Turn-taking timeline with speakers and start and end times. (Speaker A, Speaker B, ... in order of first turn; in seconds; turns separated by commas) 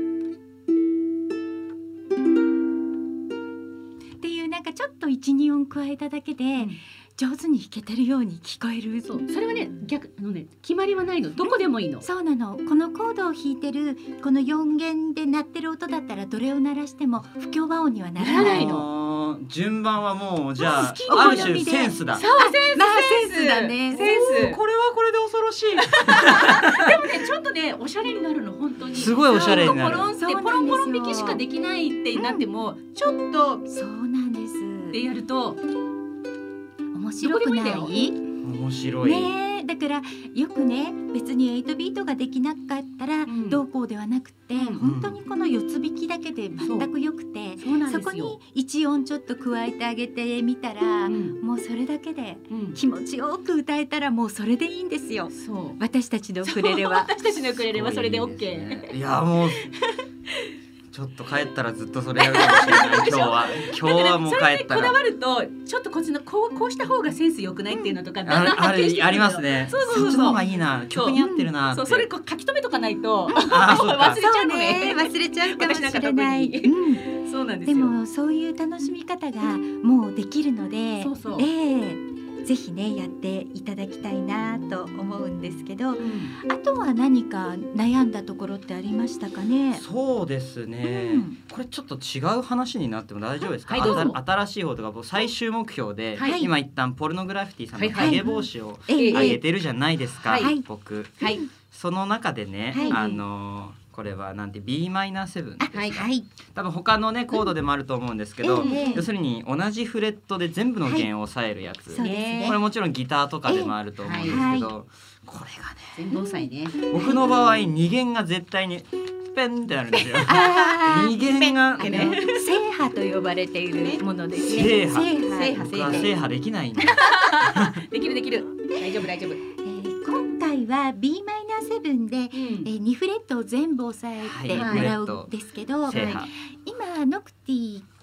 Speaker A: 4.2-9.2, Speaker B: 9.1-12.1, Speaker A: 11.4-18.9, Speaker B: 18.2-18.8, Speaker C: 18.4-22.2, Speaker B: 20.6-21.5, Speaker A: 21.1-24.1, Speaker B: 22.1-24.6, Speaker C: 24.0-27.0, Speaker B: 25.8-33.6, Speaker C: 28.9-30.1, Speaker A: 29.5-31.4, Speaker A: 32.2-32.4, Speaker A: 33.7-35.0, Speaker B: 34.9-35.6, Speaker A: 36.9-38.2, Speaker B: 37.2-37.9, Speaker C: 38.4-39.3, Speaker A: 39.0-57.1, Speaker B: 43.3-43.6, Speaker C: 44.8-45.2, Speaker B: 46.6-46.9, Speaker B: 47.6-48.4, Speaker B: 51.1-51.4, Speaker B: 52.5-52.8, Speaker B: 55.3-55.8, Speaker B: 56.5-58.9, Speaker C: 57.6-59.6, Speaker B: 59.6-60.5, Speaker C: 60.9-65.0, Speaker B: 62.2-71.2, Speaker A: 67.7-68.0, Speaker C: 68.2-72.1, Speaker A: 69.9-70.4, Speaker A: 71.2-71.5, Speaker B: 71.7-78.0, Speaker A: 73.3-73.6, Speaker C: 73.4-74.2, Speaker A: 74.1-77.1, Speaker A: 77.7-89.8, Speaker B: 81.0-81.5, Speaker B: 86.0-86.3, Speaker C: 89.7-116.0, Speaker A: 90.8-91.4, Speaker B: 93.7-94.2, Speaker A: 93.8-94.1, Speaker A: 96.2-96.5, Speaker B: 97.8-99.4, Speaker A: 98.0-98.3, Speaker A: 98.9-99.4, Speaker B: 100.2-100.5, Speaker A: 100.4-100.7, Speaker A: 101.2-101.5, Speaker B: 101.2-101.5, Speaker A: 102.7-103.0, Speaker B: 102.8-103.2, Speaker A: 105.6-106.3, Speaker B: 105.7-106.0, Speaker A: 108.4-109.1, Speaker B: 108.6-109.1, Speaker A: 111.9-112.6, Speaker B: 112.0-112.5, Speaker A: 113.5-114.7, Speaker B: 114.0-114.4, Speaker B: 116.0-116.8, Speaker A: 116.1-117.2, Speaker C: 116.9-122.2, Speaker A: 120.3-126.1, Speaker B: 121.8-122.5, Speaker C: 124.4-127.0, Speaker B: 125.3-126.1, Speaker A: 126.8-127.1, Speaker B: 126.9-129.4, Speaker A: 129.6-137.9, Speaker B: 132.3-132.7, Speaker C: 134.2-135.3, Speaker B: 134.5-134.9, Speaker C: 135.8-136.3